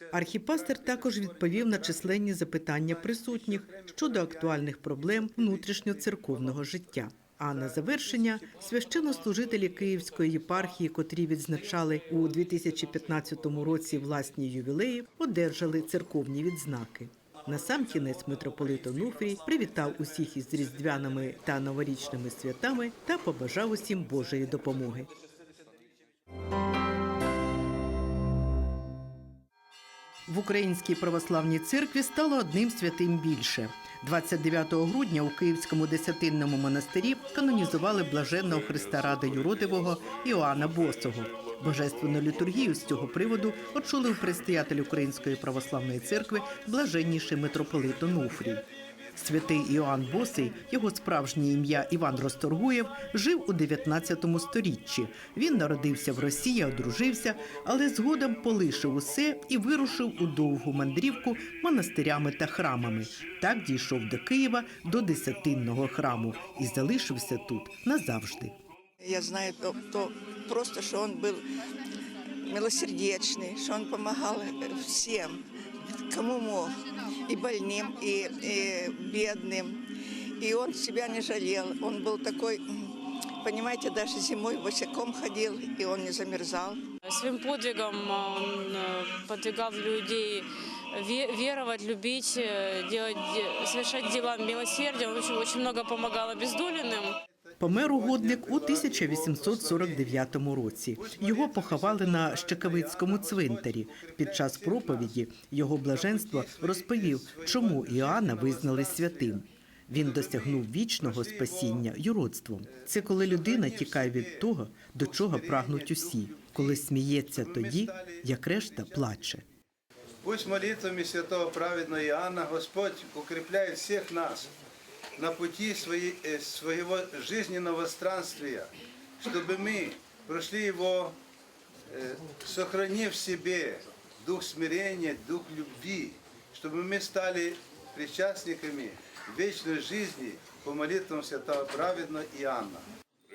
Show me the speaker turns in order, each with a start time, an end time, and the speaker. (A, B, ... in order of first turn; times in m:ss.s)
0:00.1-0:25.1 A
0:03.6-0:04.2 B
0:30.3-0:48.6 A
0:49.2-1:08.6 A
1:09.0-1:11.4 C
1:12.4-1:15.4 C
1:16.1-1:16.8 C
1:17.3-1:19.9 C
1:20.4-1:26.8 C
1:27.0-1:37.2 D
1:37.6-1:59.4 A
1:37.7-1:40.2 B
1:41.0-1:45.1 B
1:45.9-1:49.4 B
1:49.9-1:51.8 B
1:53.1-1:54.5 B
1:55.0-1:59.0 B
2:00.2-2:04.5 B
2:05.2-2:11.2 B
2:11.9-2:22.9 B